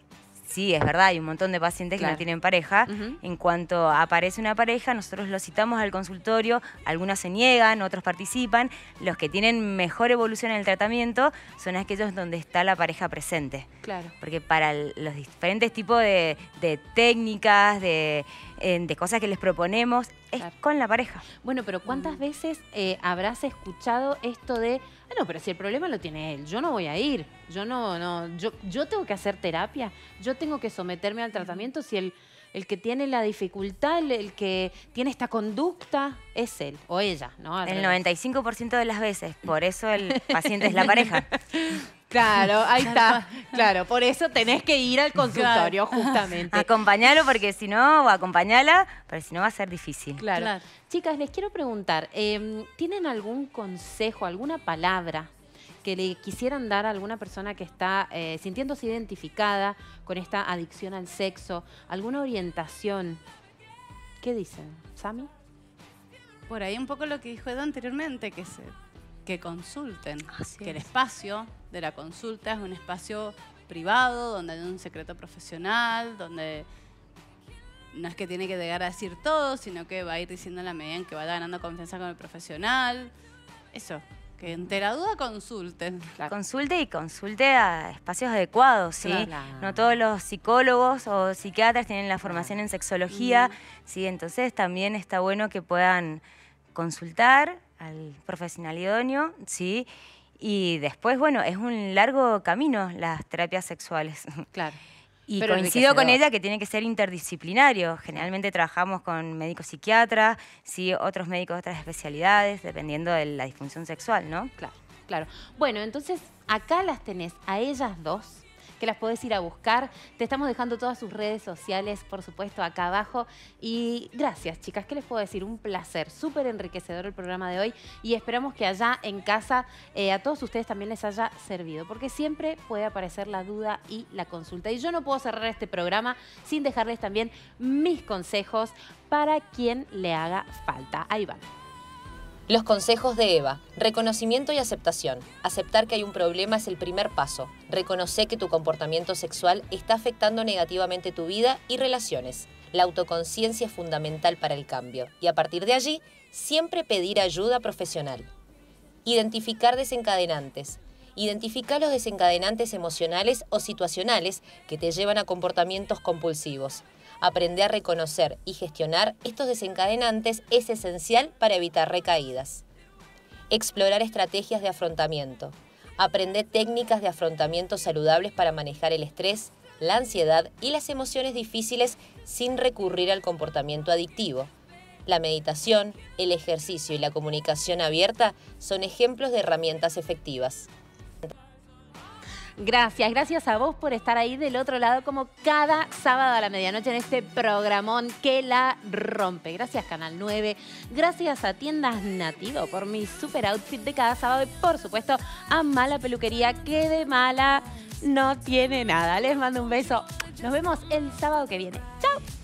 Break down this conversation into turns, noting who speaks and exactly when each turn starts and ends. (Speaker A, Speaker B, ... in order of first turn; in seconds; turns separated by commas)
Speaker A: 0.4-21.2, Speaker B: 2.0-2.2, Speaker B: 2.9-3.2, Speaker B: 13.8-14.1, Speaker B: 21.4-38.0, Speaker A: 37.6-41.2, Speaker B: 40.1-46.7, Speaker C: 42.8-43.6, Speaker C: 45.3-46.3, Speaker A: 46.5-50.2, Speaker B: 50.2-55.3, Speaker C: 50.3-50.6, Speaker B: 55.8-63.2, Speaker B: 64.2-65.3, Speaker C: 66.5-68.7, Speaker C: 69.2-76.7, Speaker C: 77.9-83.1, Speaker C: 83.7-86.1, Speaker A: 86.2-96.2, Speaker B: 89.0-89.8, Speaker B: 92.2-92.5, Speaker C: 93.1-93.5, Speaker A: 96.7-99.9, Speaker A: 100.4-104.5, Speaker B: 104.5-104.8, Speaker A: 105.3-114.5, Speaker B: 105.4-106.2, Speaker B: 114.6-141.5, Speaker D: 142.5-158.3, Speaker D: 159.0-172.6, Speaker D: 173.5-184.5, Speaker D: 185.1-190.7, Speaker B: 192.6-212.2